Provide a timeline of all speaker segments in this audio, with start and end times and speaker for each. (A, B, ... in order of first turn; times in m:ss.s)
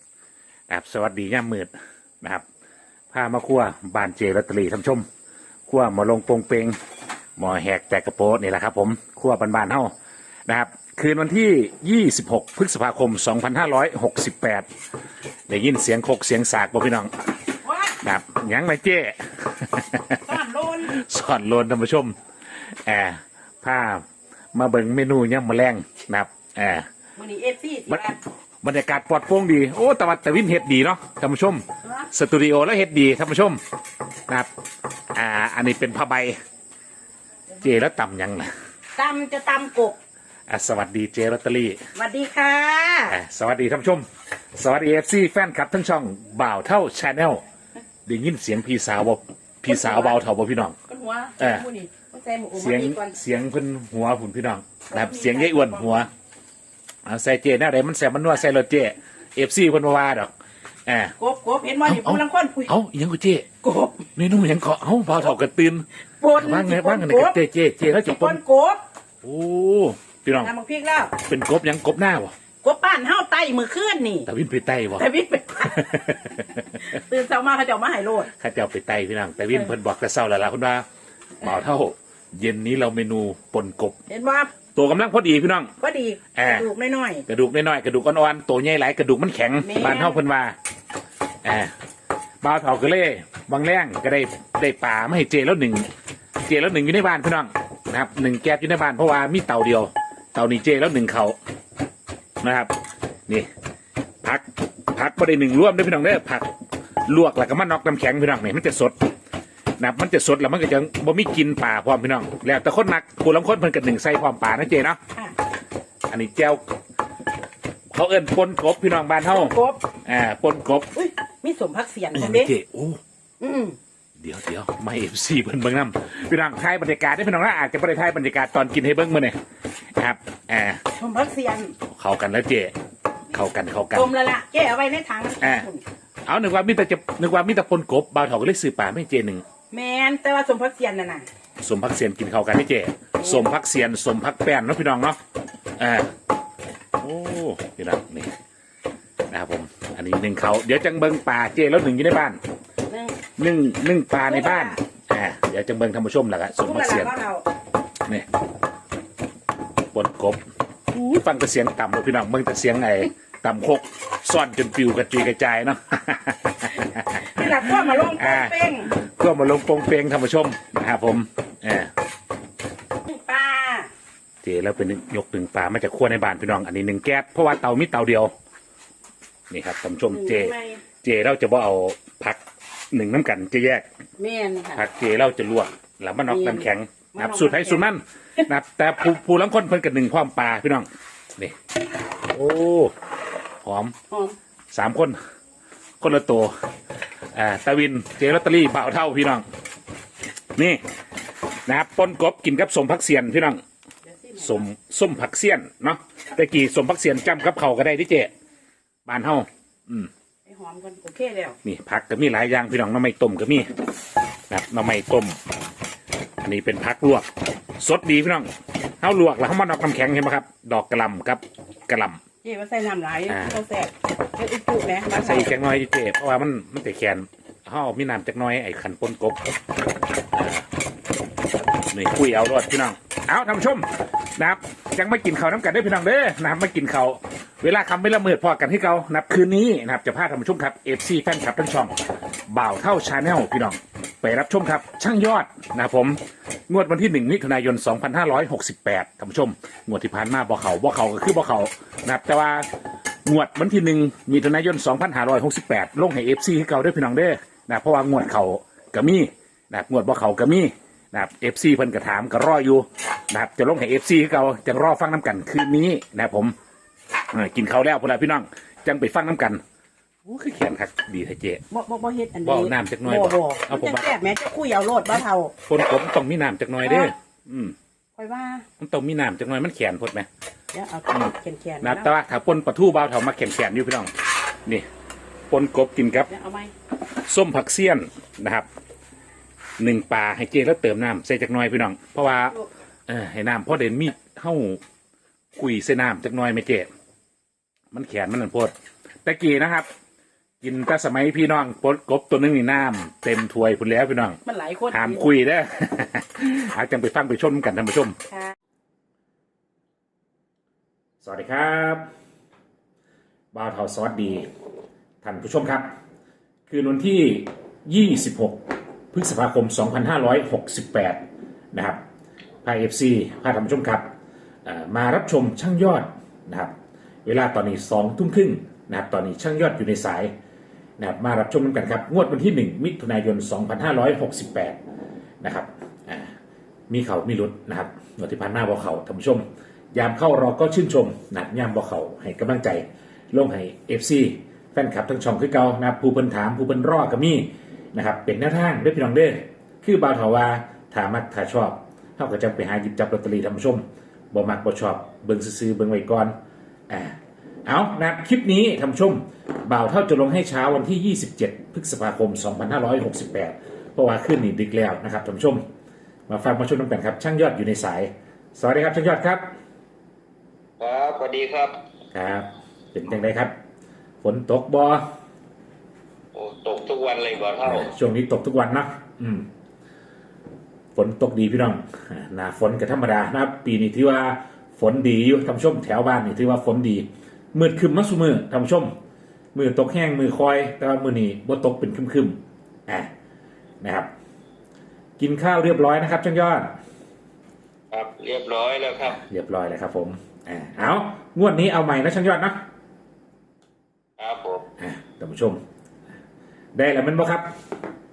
0:00.7-0:02.4 A
0:03.1-0:05.0 A
0:05.7-0:06.7 A
0:07.4-0:09.9 A
0:10.5-0:14.6 A
0:15.5-0:17.4 A
0:17.6-0:18.0 B
0:18.0-0:20.2 A
0:20.2-0:21.0 B
0:20.8-0:24.0 A
0:24.5-0:26.9 A
0:27.2-0:28.2 B
0:28.6-0:33.6 A
0:35.1-0:36.4 A
0:37.6-0:38.5 A
0:39.0-0:40.0 B
0:40.5-0:41.9 A
0:41.9-0:43.2 B
0:43.1-0:47.4 A
0:48.0-0:50.8 A
0:49.7-0:50.2 B
0:50.9-0:53.1 B
0:51.4-0:51.6 A
0:52.6-0:56.1 A
0:54.9-0:56.0 B
0:57.0-1:00.3 A
1:00.9-1:01.1 A
1:01.2-1:02.7 B
1:01.8-1:03.5 A
1:03.6-1:04.1 B
1:04.2-1:08.4 A
1:06.2-1:07.4 B
1:08.0-1:08.8 B
1:09.2-1:10.5 A
1:10.4-1:11.1 B
1:11.2-1:12.3 A
1:12.6-1:14.3 B
1:14.2-1:15.1 A
1:15.0-1:18.3 B
1:15.6-1:16.8 A
1:18.3-1:20.8 A
1:21.4-1:24.0 A
1:24.1-1:24.5 B
1:24.7-1:25.7 A
1:25.8-1:27.2 B
1:26.3-1:26.7 A
1:27.3-1:30.6 A
1:29.6-1:30.2 B
1:31.4-1:31.7 A
1:32.4-1:35.9 A
1:36.4-1:41.4 A
1:42.4-1:42.7 A
1:44.2-1:46.5 A
1:47.0-1:49.0 A
1:49.8-1:55.0 A
1:56.1-1:56.7 A
1:57.9-2:00.9 A
1:59.3-1:59.8 B
2:00.9-2:02.5 B
2:02.1-2:03.0 A
2:03.4-2:03.8 B
2:04.2-2:09.4 A
2:10.0-2:10.8 A
2:10.9-2:11.7 B
2:11.8-2:12.7 A
2:13.3-2:14.1 A
2:13.9-2:15.8 B
2:15.4-2:15.7 A
2:16.2-2:19.4 A
2:19.7-2:21.3 B
2:21.6-2:25.2 A
2:23.2-2:23.5 B
2:25.8-2:26.1 A
2:27.0-2:28.3 A
2:29.3-2:32.4 A
2:32.9-2:33.2 B
2:33.4-2:37.1 A
2:34.3-2:34.8 B
2:36.5-2:37.4 B
2:39.9-2:40.4 A
2:40.9-2:51.9 A
2:47.1-2:48.9 B
2:53.0-2:53.9 B
2:54.4-2:58.3 A
2:59.5-3:02.4 A
3:00.1-3:00.8 B
3:02.9-3:03.8 A
3:04.2-3:04.8 B
3:04.7-3:11.6 A
3:06.3-3:07.9 B
3:12.3-3:12.9 A
3:13.6-3:13.9 A
3:14.1-3:14.4 B
3:14.7-3:15.2 A
3:16.0-3:16.5 A
3:17.3-3:19.4 A
3:20.5-3:20.8 A
3:21.6-3:23.6 A
3:24.1-3:24.6 B
3:24.4-3:28.3 A
3:29.0-3:30.1 A
3:30.4-3:31.6 B
3:31.6-3:33.7 A
3:34.5-3:35.4 A
3:36.4-3:38.5 A
3:39.0-3:42.2 A
3:42.4-3:45.5 B
3:43.3-3:43.6 A
3:45.1-3:49.4 A
3:50.3-3:50.7 A
3:51.8-4:02.0 A
4:02.5-4:12.7 A
4:13.2-4:26.5 A
4:27.3-4:29.6 A
4:30.2-4:31.6 A
4:31.7-4:35.5 B
4:32.4-4:34.1 A
4:35.6-4:37.7 A
4:36.8-4:37.1 B
4:38.2-4:38.6 B
4:38.8-4:40.3 A
4:40.7-4:42.1 B
4:41.8-4:44.1 A
4:45.5-4:46.3 A
4:46.3-4:46.7 B
4:47.1-4:48.7 A
4:49.8-4:52.6 A
4:53.1-4:54.8 A
4:55.5-4:56.9 A
4:57.9-4:58.7 A
4:59.2-4:59.9 A
5:00.6-5:08.2 A
5:04.4-5:05.2 B
5:11.2-5:12.0 A
5:13.5-5:14.5 A
5:15.2-5:15.9 A
5:16.7-5:21.2 A
5:21.7-5:22.0 A
5:22.6-5:24.0 A
5:24.6-5:26.7 A
5:27.2-5:30.3 A
5:31.0-5:34.8 A
5:35.4-5:36.3 A
5:36.9-5:56.3 A
5:56.9-6:05.6 A
6:06.3-6:09.4 A
6:10.8-6:11.7 C
6:12.1-6:13.5 A
6:14.2-6:15.0 A
6:16.3-6:17.9 C
6:17.6-6:19.5 A
6:20.9-6:28.9 A
6:29.5-6:33.1 A
6:33.8-6:34.1 A
6:35.2-6:36.7 A
6:37.9-6:39.2 C
6:39.1-6:42.6 A
6:44.2-6:44.6 C
6:44.8-6:45.6 A
6:46.8-6:47.5 A